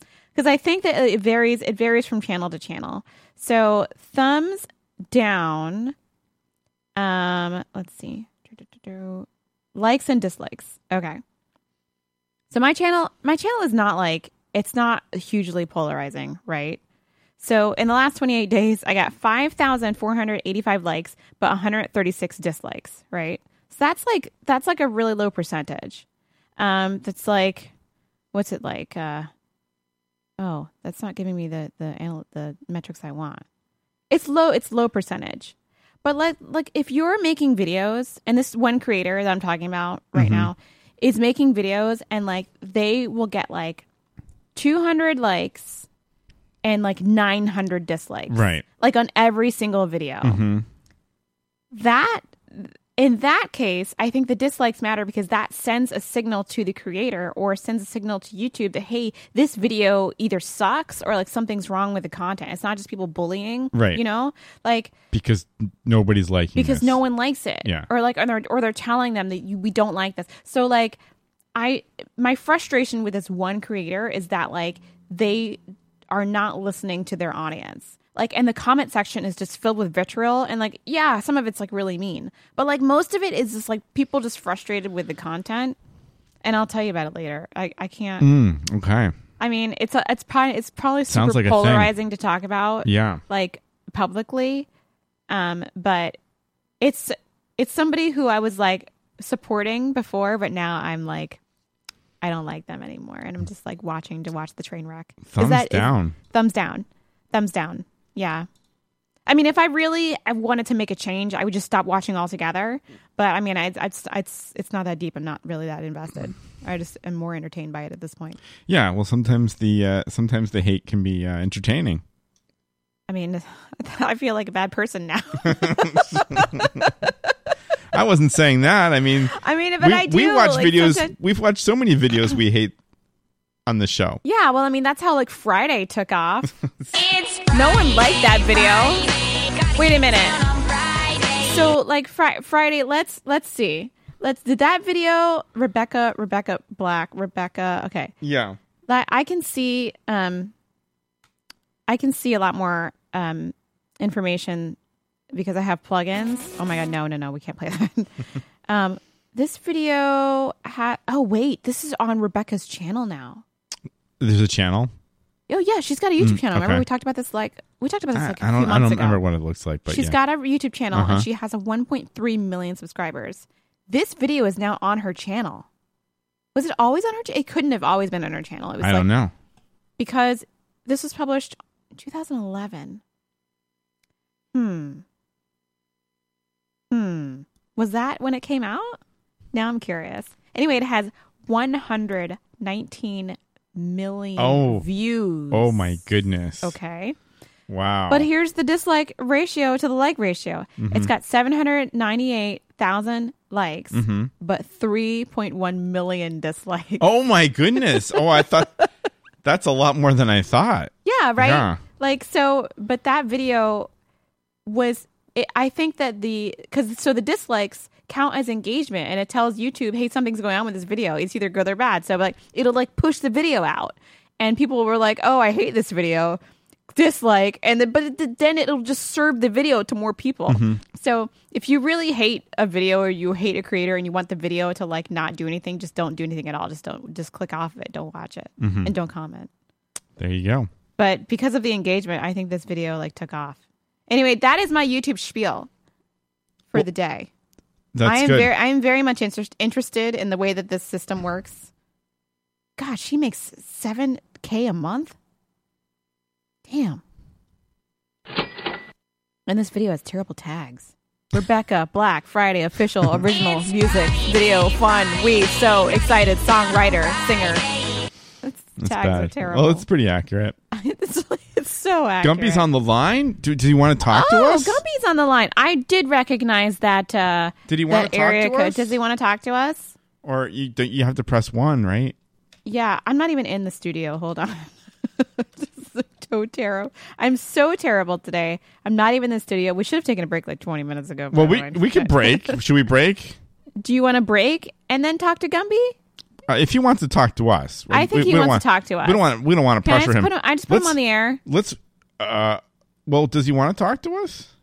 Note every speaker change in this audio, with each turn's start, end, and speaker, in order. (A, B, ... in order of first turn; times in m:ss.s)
0:00.3-0:05.9 A
0:07.0-0:11.2 A
0:12.5-0:16.8 A
0:17.4-0:26.0 A
0:26.6-0:27.7 A
0:28.3-0:29.3 A
0:30.4-0:33.4 A
0:34.1-0:43.8 A
0:40.1-0:40.5 B
0:44.5-0:45.9 A
0:46.6-0:50.4 A
0:48.3-0:48.6 B
0:50.2-0:50.6 B
0:51.7-1:04.9 A
1:03.7-1:04.0 B
1:05.1-1:07.0 B
1:06.5-1:11.0 A
1:11.5-1:15.6 A
1:16.1-1:25.8 A
1:26.4-1:28.3 A
1:28.2-1:29.1 B
1:29.4-1:34.7 A
1:31.1-1:31.9 B
1:32.8-1:33.2 B
1:35.3-1:36.2 A
1:36.8-1:41.4 A
1:42.2-1:48.5 A
1:45.3-1:46.1 B
1:49.3-1:58.4 A
1:58.7-2:02.0 B
2:03.1-2:07.1 A
2:05.5-2:06.6 B
2:07.9-2:12.8 B
2:09.3-2:11.1 A
2:13.6-2:14.2 B
2:14.2-2:19.1 A
2:19.7-2:20.4 A
2:21.3-2:28.1 A
2:28.2-2:28.6 B
2:28.9-2:30.5 A
2:31.9-2:34.8 A
2:35.3-2:38.1 A
2:38.7-2:43.4 A
2:44.2-2:44.9 B
2:45.5-2:49.2 A
2:46.2-2:46.8 B
2:48.1-2:50.2 B
2:49.9-2:55.7 A
2:50.9-2:51.3 B
2:56.5-2:59.1 A
2:58.8-2:59.3 B
3:00.0-3:03.0 A
3:04.5-3:05.0 A
3:06.9-3:09.0 A
3:09.5-3:17.2 A
3:14.4-3:14.9 B
3:15.5-3:16.8 B
3:17.7-3:18.3 B
3:18.1-3:27.0 A
3:20.8-3:21.1 B
3:23.9-3:24.3 B
3:27.0-3:28.7 B
3:27.9-3:28.2 A
3:29.4-3:31.8 B
3:31.0-3:33.9 A
3:34.6-3:46.4 A
3:46.9-3:59.5 A
3:50.5-3:50.8 B
3:58.6-3:58.9 B
4:00.2-4:00.7 B
4:01.0-4:05.7 A
4:06.7-4:07.3 A
4:07.9-4:08.5 B
4:08.0-4:11.7 A
4:12.8-4:15.2 A
4:16.6-4:17.0 A
4:19.5-4:27.6 A
4:28.4-4:29.8 A
4:28.8-4:30.6 B
4:30.7-4:32.7 A
4:32.2-4:34.8 B
4:34.1-4:39.9 A
4:37.7-4:39.0 B
4:40.2-4:42.2 B
4:42.6-4:52.6 A
4:51.3-4:53.4 B
4:53.8-4:56.0 A
4:56.5-5:04.5 B
4:57.9-4:59.2 A
4:59.8-5:01.4 A